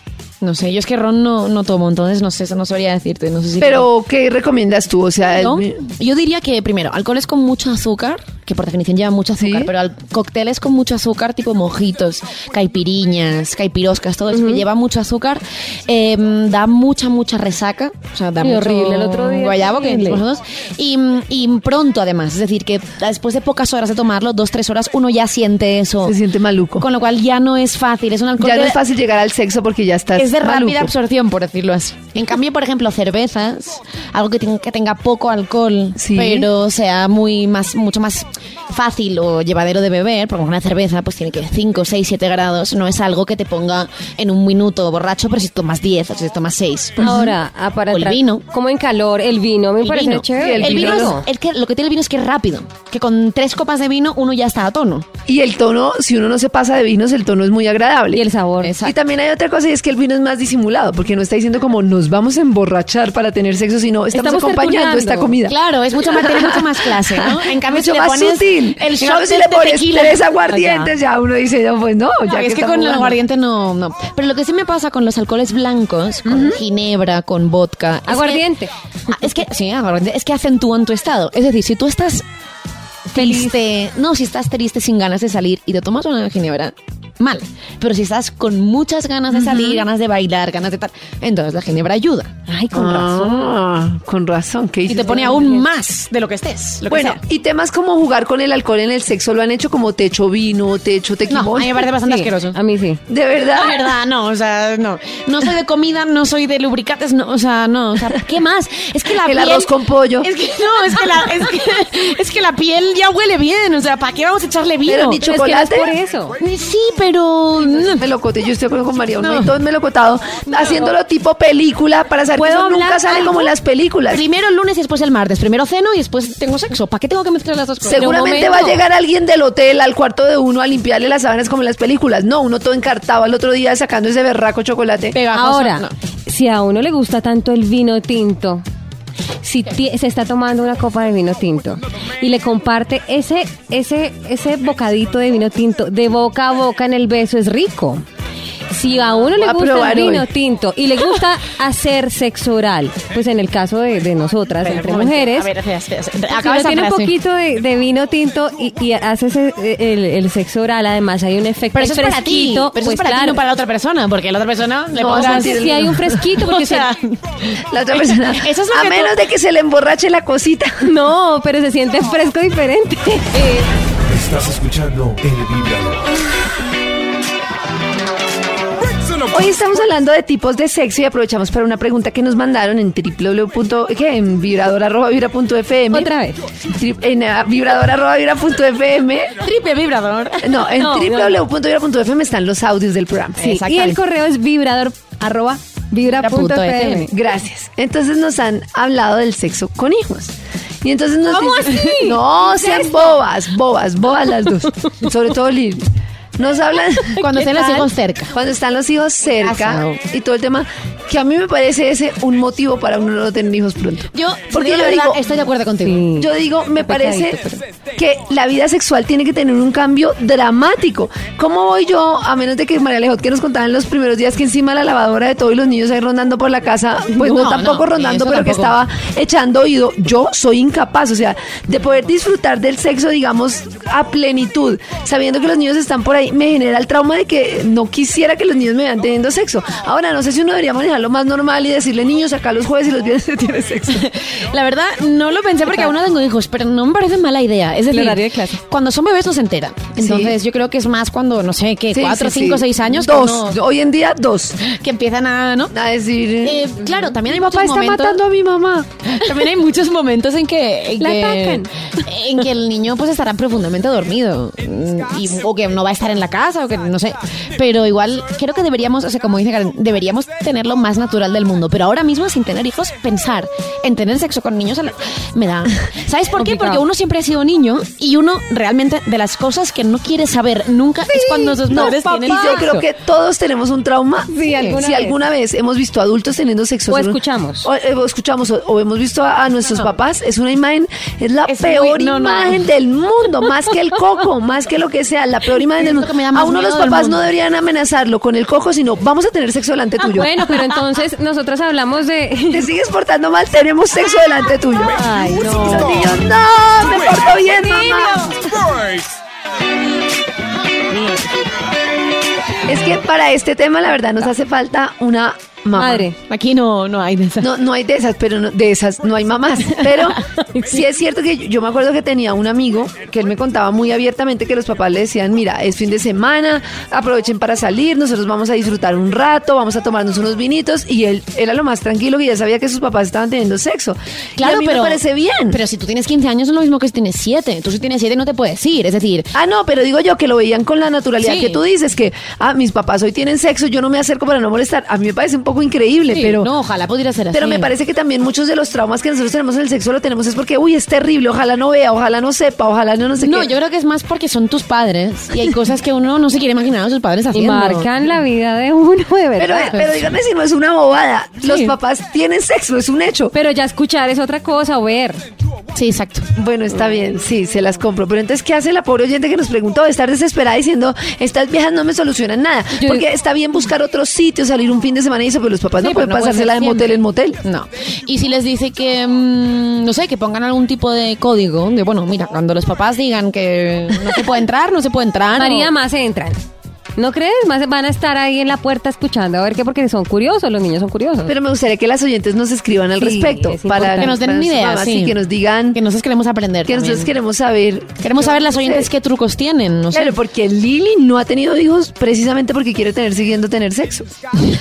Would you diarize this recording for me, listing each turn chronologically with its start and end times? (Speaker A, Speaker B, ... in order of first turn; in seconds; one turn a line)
Speaker A: 0.4-3.9
Speaker B: 3.6-5.8
Speaker A: 5.3-26.2
Speaker B: 9.4-9.7
Speaker C: 14.3-14.6
Speaker C: 18.4-20.2
Speaker B: 26.1-26.9
Speaker A: 26.8-28.8
Speaker B: 28.4-30.9
Speaker A: 30.1-47.2
Speaker B: 36.0-36.5
Speaker B: 47.0-47.3
Speaker C: 47.0-51.2
Speaker A: 47.9-48.4
Speaker A: 49.8-55.1
Speaker B: 50.4-51.2
Speaker B: 55.3-58.2
Speaker C: 58.1-58.8
Speaker A: 58.6-59.0
Speaker B: 58.8-65.6
Speaker C: 64.1-65.4
Speaker A: 65.4-70.9
Speaker B: 66.1-73.2
Speaker A: 72.3-78.5
Speaker B: 76.3-76.6
Speaker C: 78.1-78.7
Speaker A: 79.1-82.2
Speaker A: 83.1-92.3
Speaker C: 83.1-83.6
Speaker C: 92.5-93.6
Speaker B: 92.7-95.5
Speaker A: 94.9-97.2
Speaker C: 95.1-95.6
Speaker B: 96.9-101.9
Speaker A: 101.3-102.6
Speaker C: 102.0-103.0
Speaker B: 103.1-103.8
Speaker A: 103.5-115.2
Speaker B: 109.2-110.3
Speaker B: 114.9-115.9
Speaker C: 115.2-116.4
Speaker A: 116.4-118.1
Speaker B: 117.8-124.2
Speaker A: 119.2-119.6
Speaker A: 120.5-120.9
Speaker A: 122.3-123.5
Speaker A: 124.1-128.8
Speaker B: 127.9-135.2
Speaker A: 135.1-135.9
Speaker C: 135.3-138.6
Speaker C: 139.4-148.0
Speaker C: 148.7-155.5
Speaker B: 149.3-150.2
Speaker A: 154.6-157.1
Speaker C: 156.3-163.4
Speaker A: 161.7-169.2
Speaker B: 165.0-166.1
Speaker C: 165.1-166.9
Speaker B: 167.7-170.9
Speaker C: 170.8-173.7
Speaker D: 174.0-176.1
Speaker E: 178.8-179.7
Speaker B: 179.3-186.1
Speaker C: 185.9-186.4
Speaker B: 186.7-189.4
Speaker A: 189.4-191.2
Speaker B: 190.4-193.4
Speaker C: 190.8-191.2
Speaker A: 193.4-194.0
Speaker C: 193.4-197.1
Speaker A: 196.1-197.1
Speaker B: 197.1-205.9
Speaker C: 201.3-203.1
Speaker A: 201.6-202.0
Speaker B: 206.4-207.2
Speaker C: 207.2-207.9
Speaker A: 207.2-208.3
Speaker B: 208.3-215.2
Speaker A: 209.4-210.0
Speaker A: 214.1-216.1
Speaker C: 215.8-216.3
Speaker B: 216.2-217.4
Speaker C: 216.8-217.6
Speaker B: 218.0-244.1
Speaker A: 227.1-228.8
Speaker A: 243.9-253.6
Speaker C: 247.9-248.6
Speaker B: 250.0-250.4
Speaker B: 251.9-254.6
Speaker A: 254.6-255.7
Speaker B: 255.7-256.7
Speaker A: 256.4-258.2
Speaker B: 257.2-259.1
Speaker A: 259.1-282.9
Speaker C: 261.0-261.7
Speaker C: 276.4-276.8
Speaker C: 281.1-282.7
Speaker B: 281.7-300.3
Speaker C: 284.3-285.2
Speaker A: 284.5-284.8
Speaker C: 286.9-287.7
Speaker A: 291.4-292.7
Speaker A: 295.7-297.3
Speaker C: 300.1-302.7
Speaker B: 302.5-308.4
Speaker E: 304.9-306.2
Speaker C: 304.9-305.7
Speaker A: 305.0-306.0
Speaker E: 306.8-309.2
Speaker B: 312.7-316.1
Speaker C: 315.8-316.1
Speaker A: 316.3-317.5
Speaker B: 317.4-335.6
Speaker A: 319.8-320.8
Speaker A: 334.4-339.3
Speaker B: 339.3-346.5
Speaker A: 341.2-341.6
Speaker A: 346.1-347.7
Speaker B: 347.3-353.5
Speaker A: 353.2-357.9
Speaker C: 357.3-359.8
Speaker B: 359.4-363.3
Speaker A: 359.7-360.1
Speaker A: 361.4-361.8
Speaker C: 363.3-365.2
Speaker A: 365.7-366.3
Speaker B: 366.4-377.4
Speaker C: 372.8-373.1
Speaker A: 375.8-385.7
Speaker C: 385.4-386.4
Speaker C: 387.0-391.3
Speaker B: 391.3-395.8
Speaker C: 393.0-394.1
Speaker A: 393.8-395.2
Speaker A: 395.7-397.1
Speaker B: 396.6-398.9
Speaker A: 398.0-400.2
Speaker B: 399.9-404.1